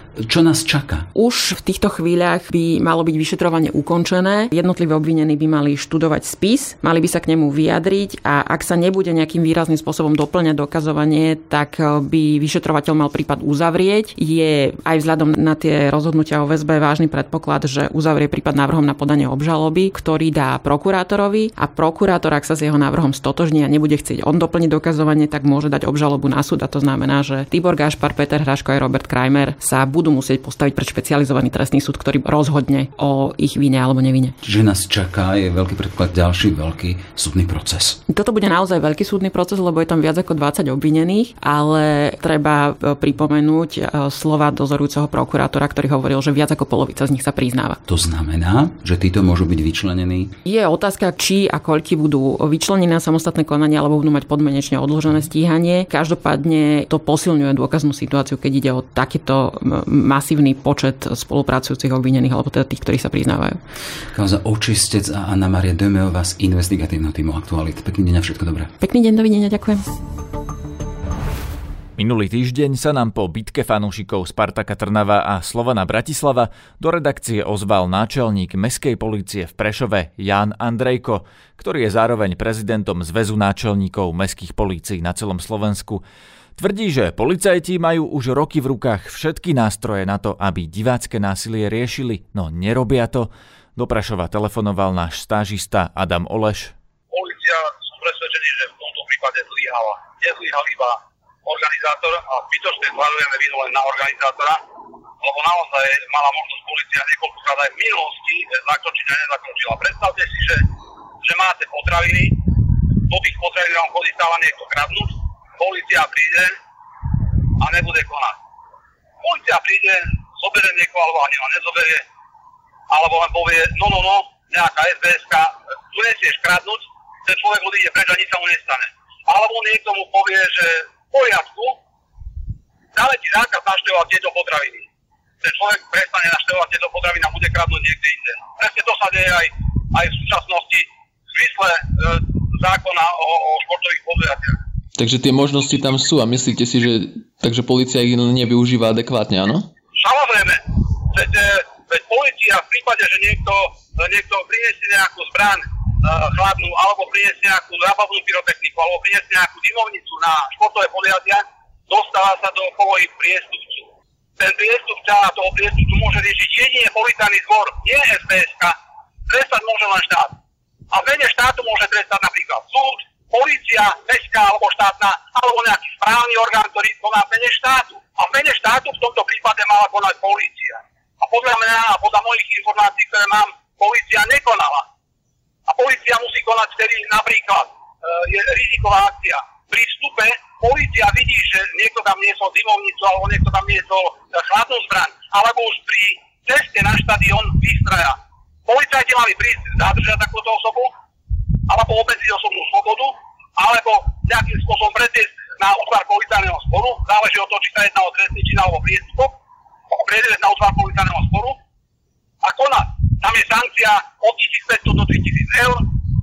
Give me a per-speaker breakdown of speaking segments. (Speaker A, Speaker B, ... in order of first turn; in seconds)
Speaker A: 0.2-1.1, 34.4-38.0, 47.9-50.3, 64.1-68.7
Speaker B: 1.1-34.4, 38.1-47.8, 50.5-63.6, 68.8-69.8
Speaker C: 72.0-86.0, 86.6-96.7
Speaker D: 97.1-104.6, 105.2-110.6, 111.2-112.4, 113.1-116.6, 117.6-118.3, 119.2-122.0, 122.9-131.8, 132.9-134.9, 135.4-144.6, 150.0-150.6, 151.1-163.9, 164.4-168.8, 169.3-170.3, 170.9-184.8, 185.7-200.9, 201.7-209.3, 209.9-211.6, 212.4-215.8
Speaker E: 145.0-149.7